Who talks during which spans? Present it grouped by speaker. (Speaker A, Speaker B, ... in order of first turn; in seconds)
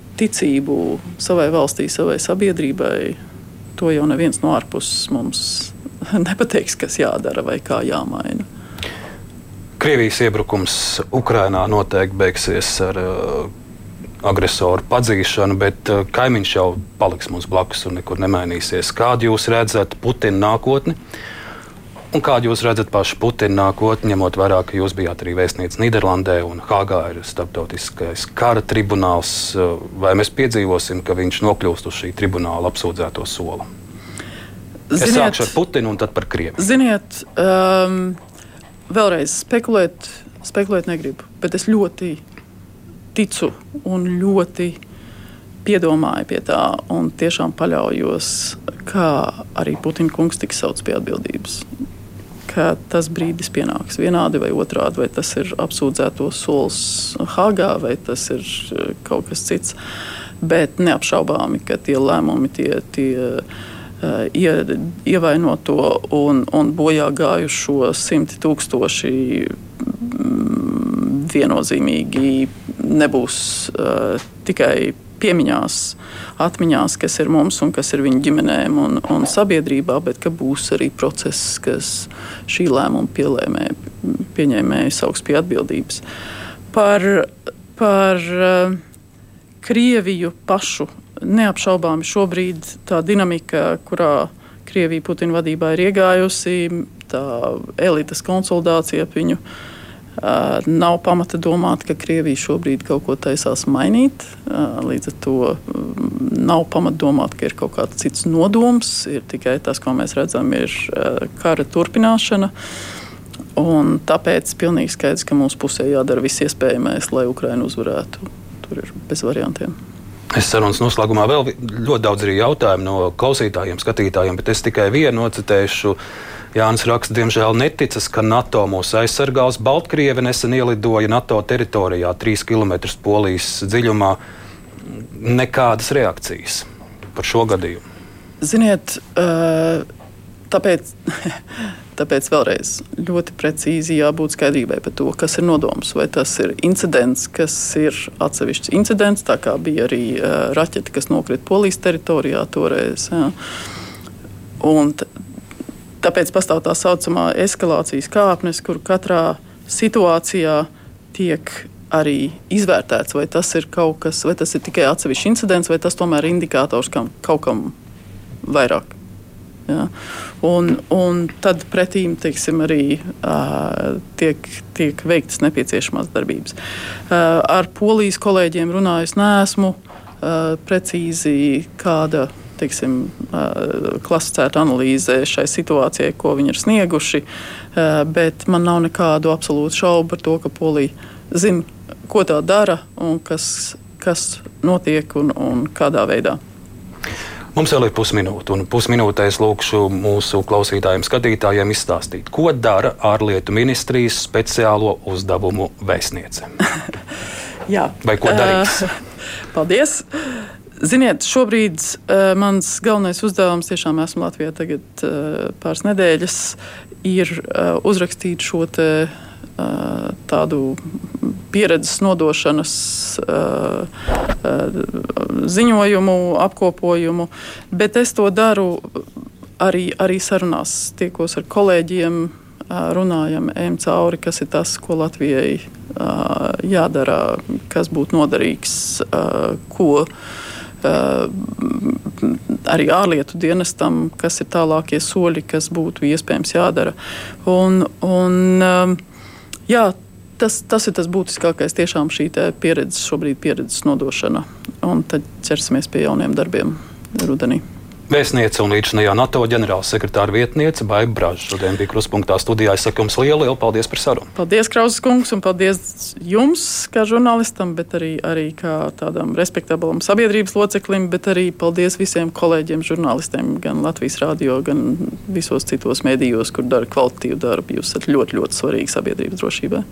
Speaker A: 0.2-3.2, 3.8-8.4, 34.9-35.5, 36.6-38.2, 38.9-42.2, 43.1-44.8, 45.6-51.6, 52.5-59.8, 60.4-63.4, 64.0-86.0, 86.7-88.8, 89.6-99.4, 100.2-112.5, 113.5-119.7, 138.4-139.8, 140.5-141.4, 141.9-153.3, 154.6-155.1, 156.0-167.7, 168.4-168.9, 170.4-176.5, 177.1-196.4, 207.7-208.9, 209.5-223.9, 224.4-229.0, 229.6-240.1, 240.8-249.0, 249.7-257.6, 264.4-279.8
Speaker B: 9.8-13.5, 14.2-20.9, 22.1-33.6, 35.0-36.6, 120.3-126.0, 126.5-134.2, 135.1-137.8, 197.5-206.5, 208.0-208.8, 258.1-264.3